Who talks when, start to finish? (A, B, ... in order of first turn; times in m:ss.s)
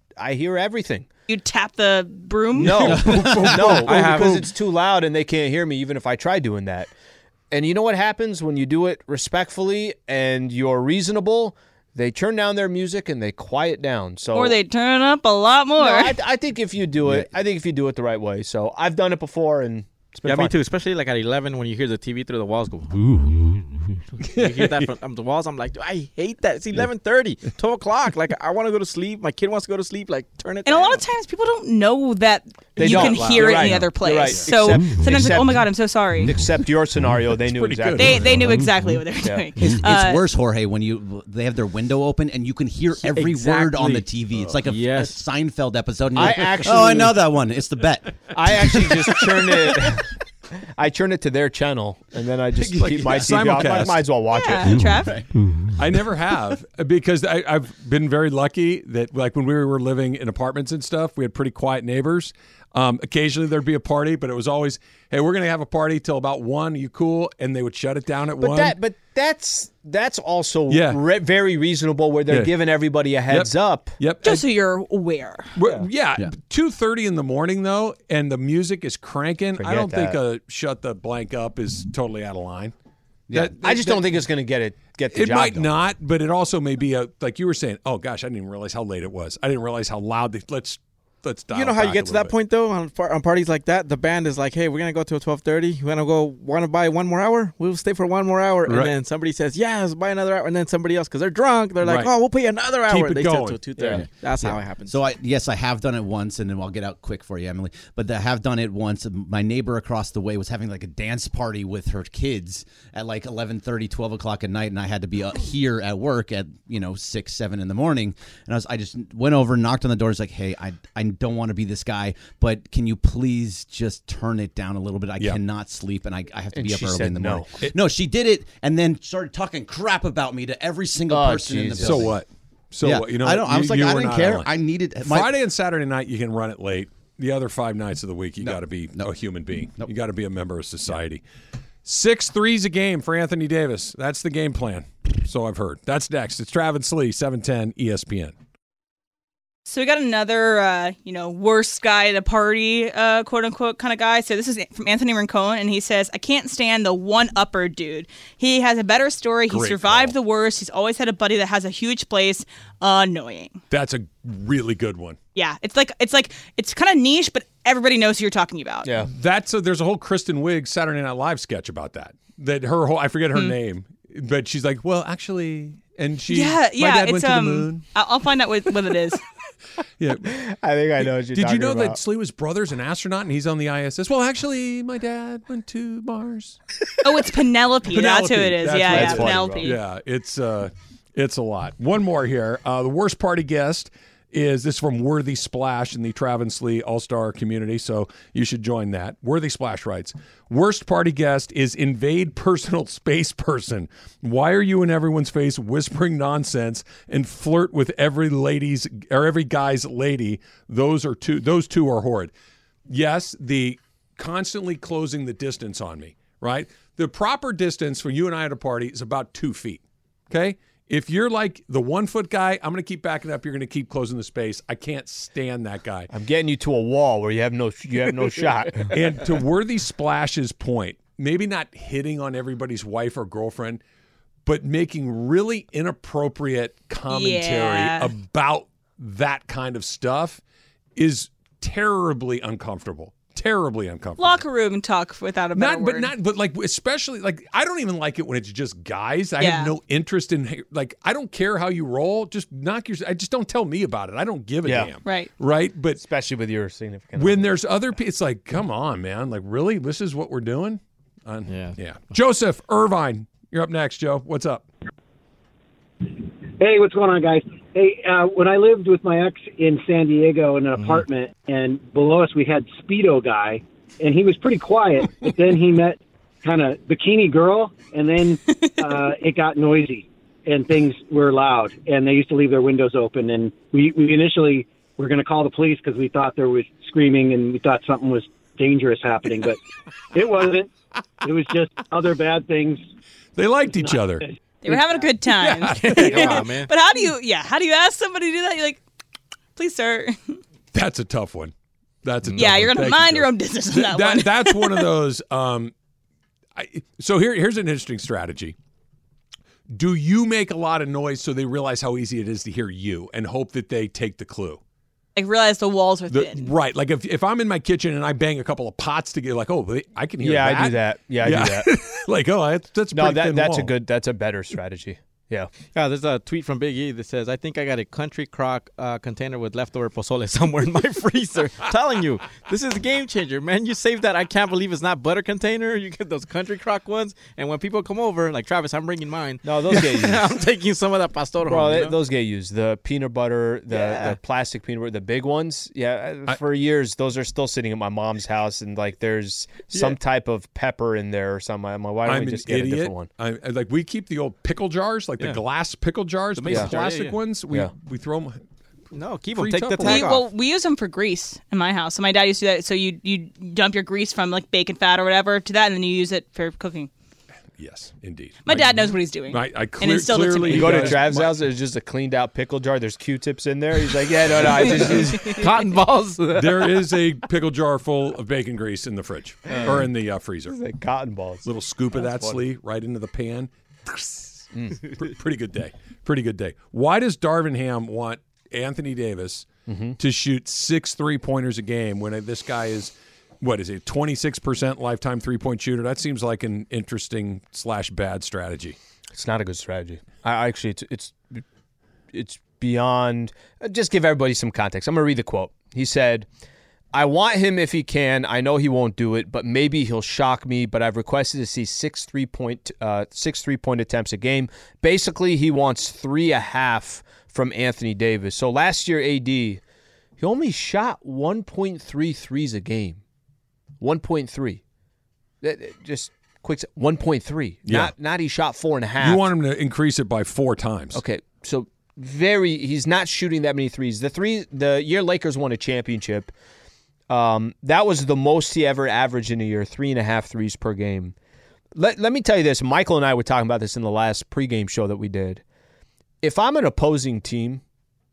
0:00.2-0:01.1 A
0:01.3-0:03.0 B
0:02.6-0:06.9 A
0:02.9-0:04.4 C
0:02.9-0:03.6 D
0:03.8-0:04.4 E
0:07.5-0:14.6 A
0:14.3-0:16.1 B
0:15.8-0:20.5 A
0:20.2-0:23.6 E
0:24.2-0:24.9 C
0:24.3-0:31.0 E
0:30.6-0:36.4 B
0:32.8-0:35.7 A
0:32.8-0:33.9 C
0:36.2-0:38.4 A
0:37.5-0:38.6 C
0:38.0-0:40.2 B
0:39.2-0:39.5 A
0:39.6-0:48.8 D
0:43.1-0:44.1 E
0:44.6-0:45.2 E
0:46.2-0:47.2 A
0:48.3-0:50.1 A
0:48.7-0:49.7 C
0:50.6-0:54.8 A
0:52.6-0:54.1 C
0:54.3-0:55.1 B
0:55.7-1:08.8 C
1:08.4-1:14.0 A
1:10.7-1:11.0 C
1:13.3-1:14.5 C
1:14.2-1:15.5 B
1:15.6-1:22.7 C
1:19.6-1:20.2 A
1:23.3-1:23.6 D
1:23.3-1:24.0 C
1:23.4-1:25.7 A
1:25.1-1:32.3 C
1:31.5-1:45.0 E
1:38.7-1:38.9 C
1:41.8-1:42.1 C
1:42.9-1:43.6 C
1:44.0-2:12.2 D
2:06.5-2:07.5 A
2:11.1-2:12.1 A
2:11.8-2:14.5 C
2:12.8-2:15.3 D
2:15.0-2:21.2 C
2:18.4-2:19.1 D
2:21.8-2:28.3 C
2:29.7-2:43.6 B
2:39.5-2:40.1 C
2:43.7-2:45.2 C
2:45.4-2:48.9 B
2:48.8-2:49.1 A
2:49.1-2:57.8 C
2:56.3-2:59.2 B
3:00.0-3:00.3 C
3:00.2-3:02.0 A
3:01.3-3:06.6 C
3:07.0-3:09.8 B
3:07.9-3:32.3 C
3:08.9-3:09.7 A
3:32.9-3:46.1 C
3:46.1-3:48.9 A
3:48.9-3:53.8 C
3:54.5-4:00.4 C
3:57.1-3:58.1 B
4:01.0-4:04.4 C
4:04.2-4:06.1 B
4:05.6-4:16.0 C
4:09.4-4:09.7 B
4:14.6-4:14.9 A
4:15.0-4:15.3 B
4:16.0-4:17.6 A
4:17.2-4:24.7 C
4:21.5-4:21.8 E
4:26.6-4:49.6 F
4:50.1-4:50.7 F
4:51.2-4:52.8 F
4:53.4-4:54.3 C
4:54.6-4:58.8 B
4:55.3-4:56.3 C
4:55.8-4:56.7 E
4:59.6-5:00.4 B
5:00.7-5:01.5 C
5:02.0-5:05.7 C
5:02.4-5:04.9 B
5:06.6-5:08.6 C
5:09.7-5:14.6 C
5:15.2-5:16.5 B
5:16.1-5:23.7 C
5:20.2-5:21.7 A
5:22.9-5:25.5 A
5:25.7-5:42.0 E
5:39.4-5:40.3 A
5:41.4-5:53.1 A
5:43.7-5:44.2 E
5:52.1-5:58.4 C
5:56.4-5:57.2 E
5:58.9-6:00.3 E
5:59.3-6:00.1 C
5:59.8-6:06.9 B
6:07.6-6:11.3 C
6:08.5-6:11.0 B
6:10.5-6:15.5 A
6:14.6-6:16.9 E
6:16.4-6:20.6 C
6:19.6-6:19.9 A
6:20.5-6:22.4 A
6:21.4-6:38.8 C
6:29.7-6:30.0 A
6:39.1-6:41.4 A
6:42.1-6:46.3 A
6:46.9-6:59.6 A
7:00.2-7:03.0 A
7:03.8-7:04.6 A
7:05.4-7:09.3 A
7:07.7-7:07.9 C
7:09.0-7:11.0 C
7:10.9-7:16.3 A
7:17.1-7:21.2 A
7:21.8-7:25.4 A
7:26.2-7:27.6 A